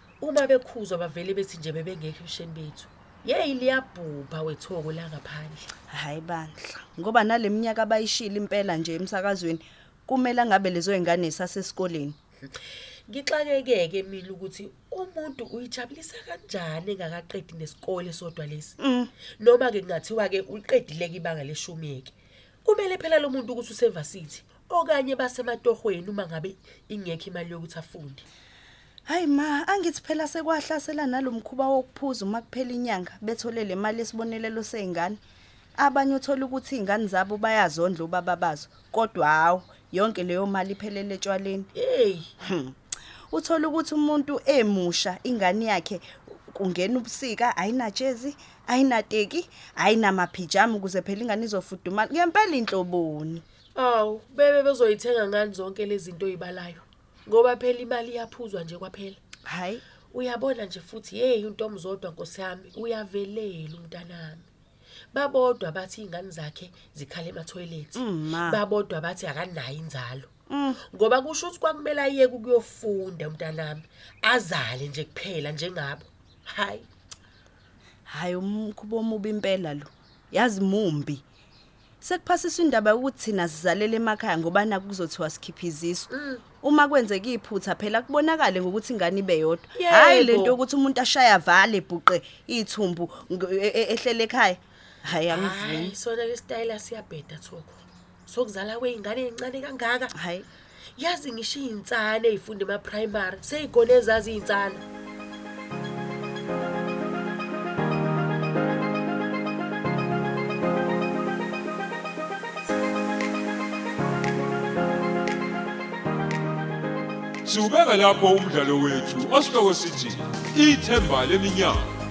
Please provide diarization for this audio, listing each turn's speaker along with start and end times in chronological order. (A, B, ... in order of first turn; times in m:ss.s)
0:00.2-0:05.7 A
0:05.9-0:12.2 B
0:13.1-0:18.8 A
0:18.8-0:19.1 B
0:19.4-0:22.1 A
0:22.6-0:28.2 A
0:29.1-0:35.2 B
0:35.8-0:41.7 B
0:41.7-0:42.3 A
0:42.4-0:42.8 B
0:43.3-0:53.4 B
0:53.8-0:59.2 A
0:59.5-0:59.8 B
1:00.1-1:04.5 A
1:05.1-1:10.3 A
1:08.0-1:08.6 B
1:10.5-1:10.8 B
1:10.9-1:16.9 A
1:18.1-1:21.2 B
1:22.0-1:26.1 B
1:26.1-1:26.4 A
1:26.6-1:35.9 B
1:29.8-1:30.6 A
1:35.3-1:37.8 A
1:38.3-1:40.1 A
1:40.1-1:40.5 B
1:41.0-1:44.8 A
1:57.4-2:01.9 C